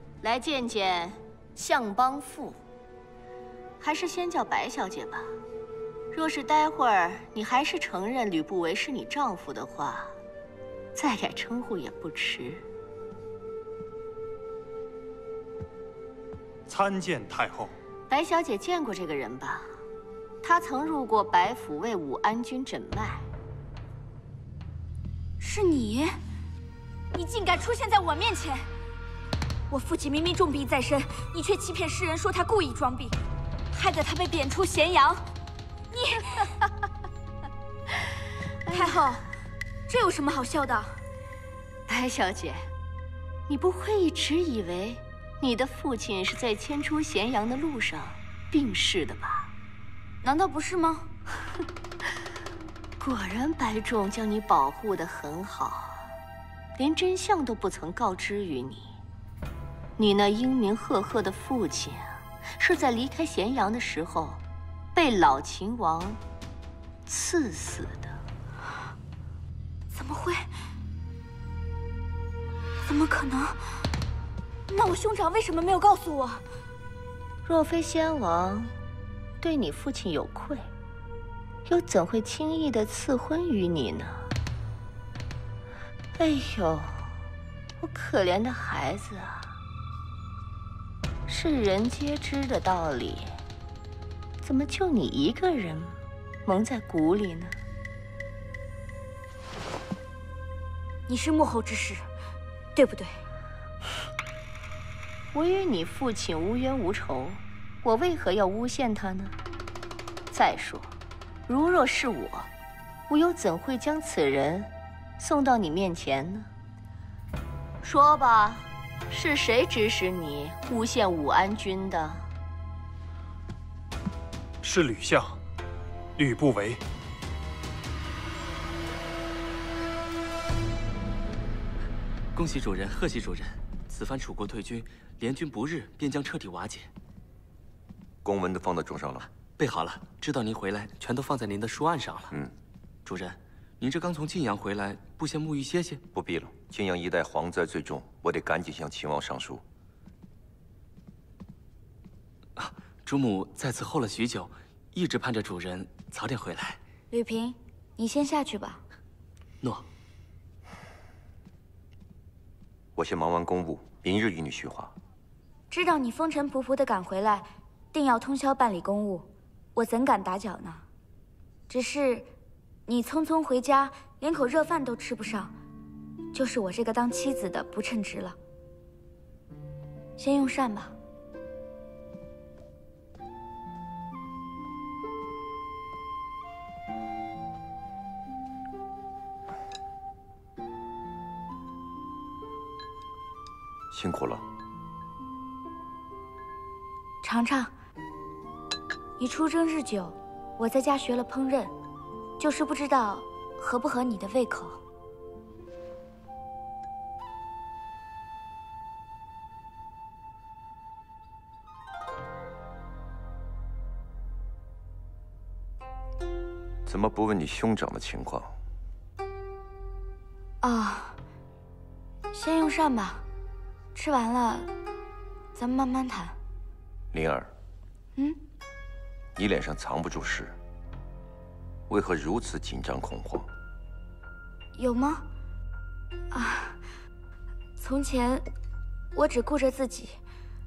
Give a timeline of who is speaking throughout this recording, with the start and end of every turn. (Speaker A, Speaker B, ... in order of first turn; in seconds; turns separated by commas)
Speaker A: 0.2-2.6, Speaker A: 3.8-5.4, Speaker A: 6.1-10.2, Speaker A: 10.9-12.6, Speaker B: 16.7-17.7, Speaker A: 18.1-19.8, Speaker A: 20.4-23.3, Speaker C: 25.4-26.2, Speaker C: 27.1-28.7, Speaker C: 29.7-33.2, Speaker C: 33.7-35.3, Speaker C: 35.9-36.5, Speaker C: 38.7-39.3, Speaker A: 38.7-39.0, Speaker C: 39.9-41.0, Speaker A: 41.9-42.7, Speaker A: 43.5-49.5, Speaker C: 50.2-51.1, Speaker A: 53.0-56.0, Speaker A: 56.8-58.9, Speaker A: 60.0-64.4, Speaker A: 65.0-66.2, Speaker A: 67.1-68.1, Speaker C: 69.9-70.5, Speaker C: 72.8-73.7, Speaker C: 74.7-76.4, Speaker A: 77.5-78.7, Speaker A: 79.4-80.6, Speaker A: 81.7-84.3, Speaker A: 86.2-86.9, Speaker A: 87.8-89.5, Speaker A: 91.3-93.3, Speaker A: 94.4-97.6, Speaker C: 101.1-102.1, Speaker C: 102.8-103.2, Speaker A: 105.3-109.3, Speaker A: 110.3-110.9, Speaker A: 111.5-112.5, Speaker A: 113.1-116.5, Speaker A: 117.8-122.2, Speaker B: 124.6-125.4, Speaker B: 126.2-126.8, Speaker D: 132.3-136.9, Speaker E: 138.2-139.3, Speaker D: 139.5-142.3, Speaker D: 143.1-146.0, Speaker E: 146.1-149.6, Speaker D: 152.6-156.8, Speaker C: 157.1-158.8, Speaker E: 163.0-164.9, Speaker C: 165.7-170.8, Speaker C: 171.7-172.3, Speaker C: 172.9-175.5, Speaker C: 176.3-178.4, Speaker C: 180.2-180.9, Speaker E: 193.9-194.4, Speaker C: 197.2-197.7, Speaker C: 199.2-201.7, Speaker C: 202.4-204.8, Speaker E: 216.9-218.5, Speaker C: 220.6-221.2, Speaker C: 222.3-223.2, Speaker C: 223.9-224.7, Speaker C: 225.6-226.4, Speaker E: 227.1-227.5, Speaker E: 229.4-230.6, Speaker E: 231.9-233.5, Speaker C: 234.8-235.2, Speaker C: 236.3-236.8, Speaker C: 237.8-238.4, Speaker C: 239.1-240.2